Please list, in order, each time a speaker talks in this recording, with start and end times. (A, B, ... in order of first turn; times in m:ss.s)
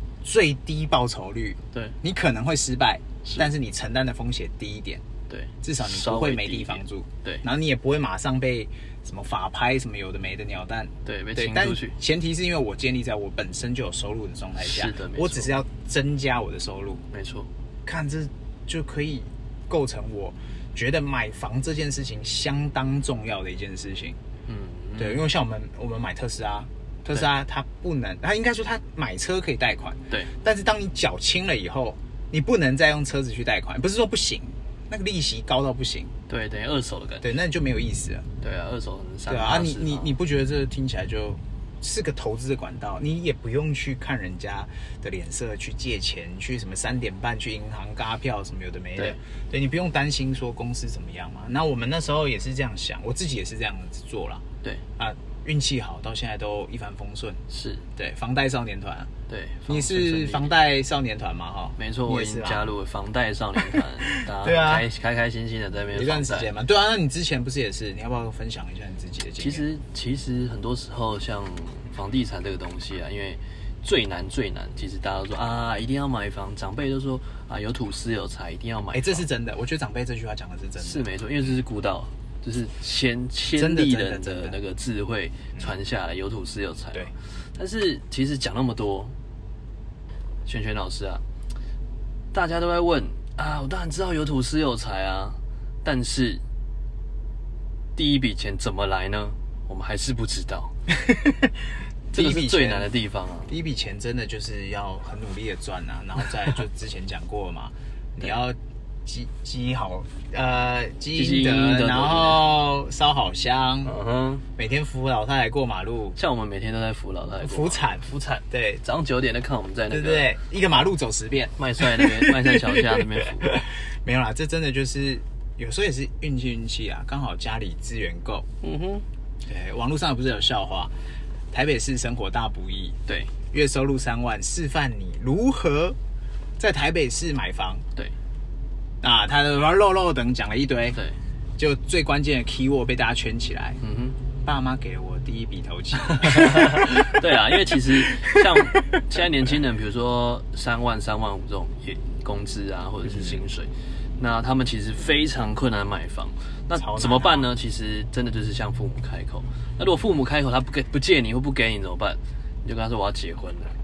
0:00.2-0:05.0 A
0:05.3-0:07.4 B
0:05.6-0:17.0 A
0:11.0-0:12.0 B
0:14.6-0:15.5 B
0:17.1-0:17.5 B
0:17.9-0:24.2 A
0:24.5-0:25.3 B
0:25.0-0:36.1 A
0:36.3-0:37.4 B
0:37.2-0:38.3 A
0:38.4-0:40.2 B
0:39.3-0:54.4 A
0:55.0-0:57.4 A
0:57.5-0:57.9 B
0:58.0-0:59.1 A
0:59.3-1:00.5 B
0:59.7-1:02.7 A
1:01.8-1:06.5 B
1:03.6-1:04.9 A
1:05.9-1:09.7 A
1:09.4-1:19.2 B
1:18.9-1:21.1 A
1:20.8-1:29.2 B
1:23.6-1:24.6 A
1:30.5-1:31.2 B
1:32.3-1:36.4 B
1:38.0-1:40.7 B
1:40.9-1:41.5 A
1:42.1-1:42.9 A
1:42.1-1:43.5 B
1:43.5-1:53.9 A
1:51.1-1:52.4 B
1:53.8-1:54.4 B
1:54.6-1:56.2 A
1:56.2-2:00.4 B
1:57.4-1:58.8 A
1:59.9-2:08.5 A
2:01.6-2:03.6 B
2:08.6-2:09.0 B
2:09.4-2:10.9 A
2:11.5-2:13.0 A
2:13.1-2:13.3 B
2:13.5-2:16.0 A
2:16.6-2:17.8 A
2:19.0-2:21.0 A
2:21.6-2:23.8 A
2:23.8-2:24.2 B
2:24.4-2:27.2 A
2:26.1-2:43.7 B
2:27.7-2:28.5 A
2:33.0-2:33.4 A
2:36.8-2:37.5 A